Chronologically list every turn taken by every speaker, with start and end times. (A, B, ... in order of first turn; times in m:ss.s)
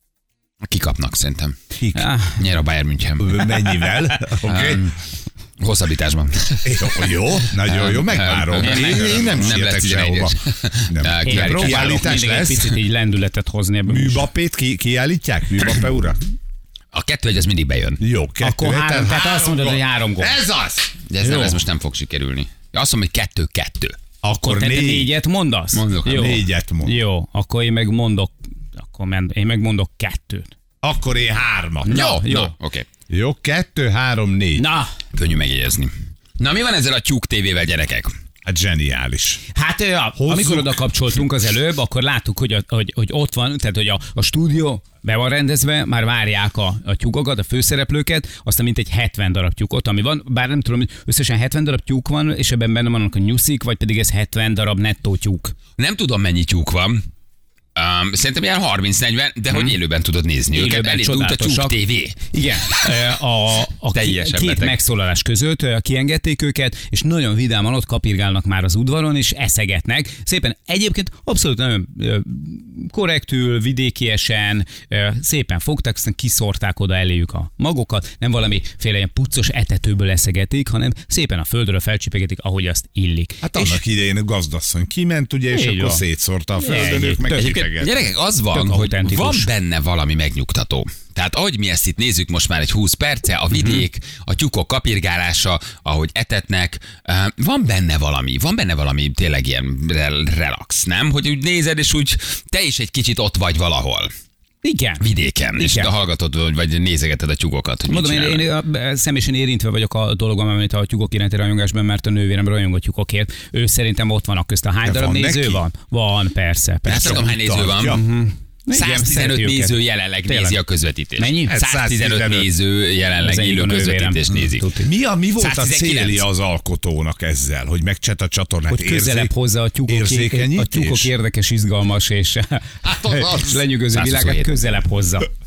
0:00.6-0:01.6 A
0:01.8-0:02.0 B
0:01.9-0:02.4 C
0:02.4-0:03.6 A
0:03.2-0:04.8 B
0:04.4-0:05.0 A
0:05.6-0:12.4 A
0:06.6-0:10.4 B
0:10.9-0:12.7 B
0:11.2-0:14.3 C
0:13.9-0:16.2 B
0:16.9-0:18.0 A
0:18.0-0:20.9 B
0:18.4-0:20.4 C
0:21.1-0:24.0 A
0:21.2-0:21.6 C
0:24.2-0:25.1 B
0:24.4-0:30.5 C
0:25.7-0:26.4 A
0:26.0-0:27.0 B
0:30.8-0:32.0 B
0:31.8-0:32.5 C
0:31.9-0:32.8 A
0:33.1-0:34.6 B
0:34.6-0:34.9 C
0:35.1-0:38.1 A
0:38.4-0:39.4 B
0:39.5-0:55.5 C
0:40.2-0:40.8 B
0:55.8-0:57.0 A
0:57.8-1:02.2 A
1:00.5-1:01.8 C
1:02.3-1:23.8 C
1:03.9-1:04.8 A
1:23.4-1:28.0 B
1:25.5-1:26.0 C
1:26.6-1:27.4 C
1:27.3-1:44.1 A
1:28.5-1:29.5 C
1:44.6-1:45.0 C
1:45.0-1:48.4 A
1:45.6-1:45.9 C
1:47.9-1:57.2 C
1:54.8-1:55.6 B
1:56.8-1:58.0 B
1:56.8-1:58.0 A
1:57.9-2:00.6 C
1:58.7-2:04.7 A
2:01.2-2:01.6 C
2:01.5-2:02.5 B
2:03.2-2:04.9 C
2:04.8-2:09.3 B
2:05.4-2:06.2 A
2:08.7-2:15.3 C
2:09.9-2:11.1 B
2:12.8-2:13.6 B
2:13.9-2:14.5 A